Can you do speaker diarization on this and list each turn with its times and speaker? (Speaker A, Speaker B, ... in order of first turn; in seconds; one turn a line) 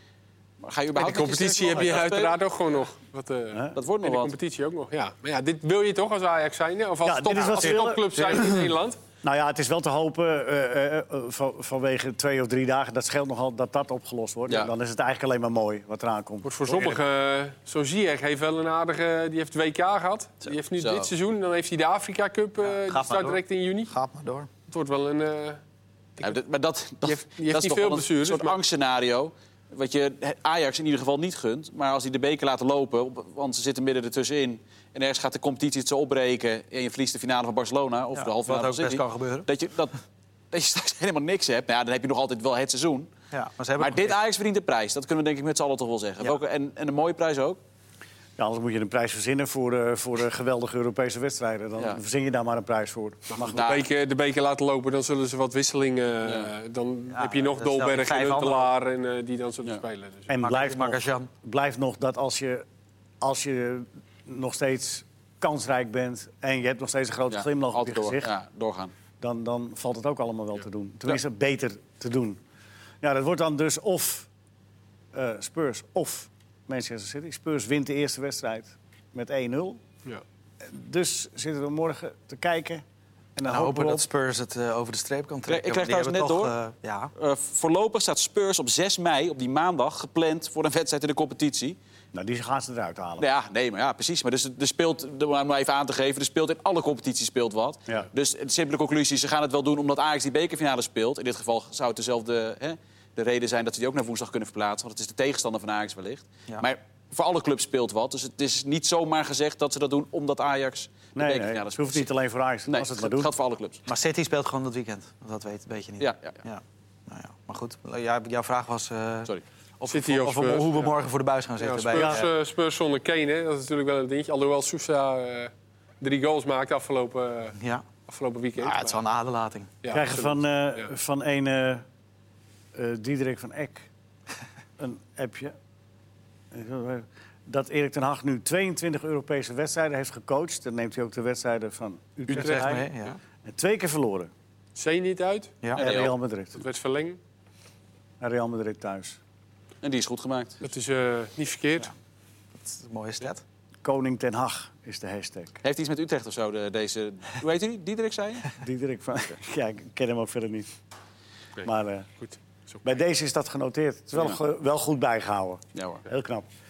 Speaker A: 0.6-2.4
Speaker B: 0.9-9.0
Speaker A: 3.7-4.3
Speaker C: 7.0-8.6
Speaker C: 9.2-17.0
Speaker B: 16.4-23.9
Speaker A: 20.8-21.1
Speaker D: 22.6-24.5
Speaker B: 24.7-25.6
Speaker A: 26.2-40.0
Speaker B: 27.0-28.6
Speaker D: 38.1-39.5
Speaker A: 40.5-43.1
Speaker D: 43.3-44.2
Speaker A: 43.8-47.6
Speaker C: 48.4-53.6
Speaker B: 53.3-60.3
Speaker A: 53.4-53.9
Speaker A: 56.2-56.5
Speaker D: 57.1-58.7
Speaker C: 60.3-62.6
Speaker D: 60.4-61.3
Speaker C: 63.2-68.3
Speaker A: 67.3-68.9
Speaker C: 69.2-72.4
Speaker C: 73.0-74.3
Speaker C: 75.1-79.8
Speaker C: 80.6-82.8
Speaker C: 83.3-84.0
Speaker D: 83.5-87.1
Speaker A: 85.5-86.5
Speaker A: 87.1-91.8
Speaker C: 92.1-93.2
Speaker A: 93.2-112.1
Speaker C: 111.1-113.3
Speaker A: 112.7-113.8
Speaker D: 113.9-122.3
Speaker A: 116.0-116.4
Speaker B: 119.9-120.9
Speaker B: 121.6-129.0
Speaker C: 121.9-122.3
Speaker D: 127.6-127.8
Speaker D: 128.6-129.7
Speaker B: 129.8-130.9
Speaker C: 129.9-131.8
Speaker C: 132.7-133.9
Speaker C: 134.8-135.5
Speaker C: 136.5-142.9
Speaker D: 142.3-143.2
Speaker B: 142.3-142.7
Speaker C: 143.4-144.3
Speaker B: 144.8-145.6
Speaker A: 145.7-146.1
Speaker C: 145.7-146.6
Speaker B: 146.5-147.2
Speaker C: 148.2-149.2
Speaker A: 149.8-150.6
Speaker B: 150.6-151.9
Speaker D: 152.6-153.4
Speaker C: 153.8-155.6
Speaker A: 155.6-158.5
Speaker C: 158.6-160.7
Speaker C: 161.6-162.1
Speaker B: 162.2-162.8
Speaker C: 162.8-166.5
Speaker A: 165.7-166.0